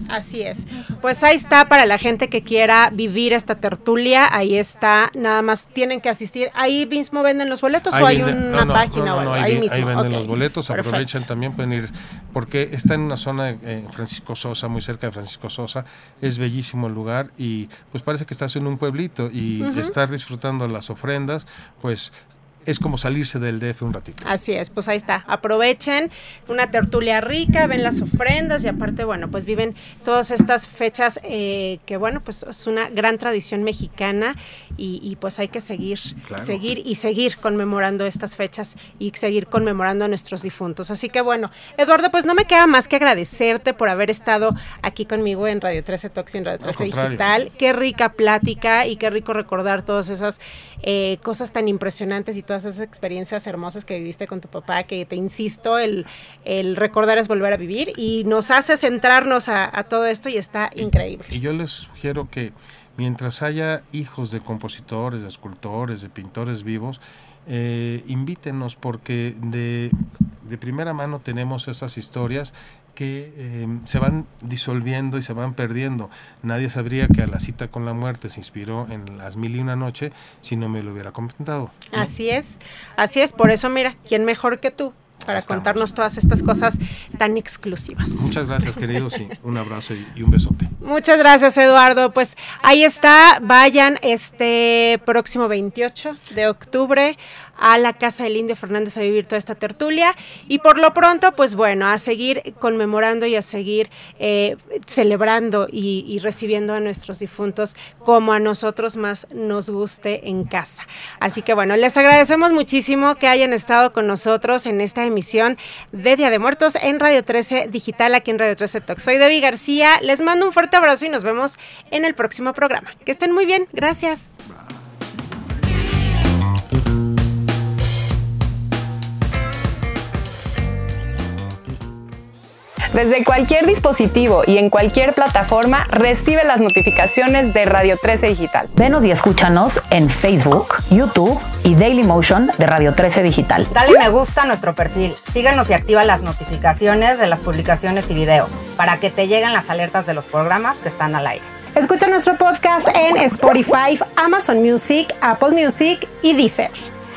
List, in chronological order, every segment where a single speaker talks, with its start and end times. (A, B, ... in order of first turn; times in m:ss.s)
0:00.1-0:11.2 A
0:07.9-0:24.2 B
0:19.6-0:19.9 A
0:24.2-1:01.3 A
0:36.2-0:36.6 B
0:46.6-0:47.3 B
1:01.3-1:22.1 B
1:21.9-1:28.3 A
1:25.2-1:25.9 B
1:28.2-1:30.7 B
1:30.8-2:04.3 A
2:12.9-2:18.7 C
2:18.7-2:23.7 D
2:23.7-2:31.5 E
2:31.7-2:36.9 A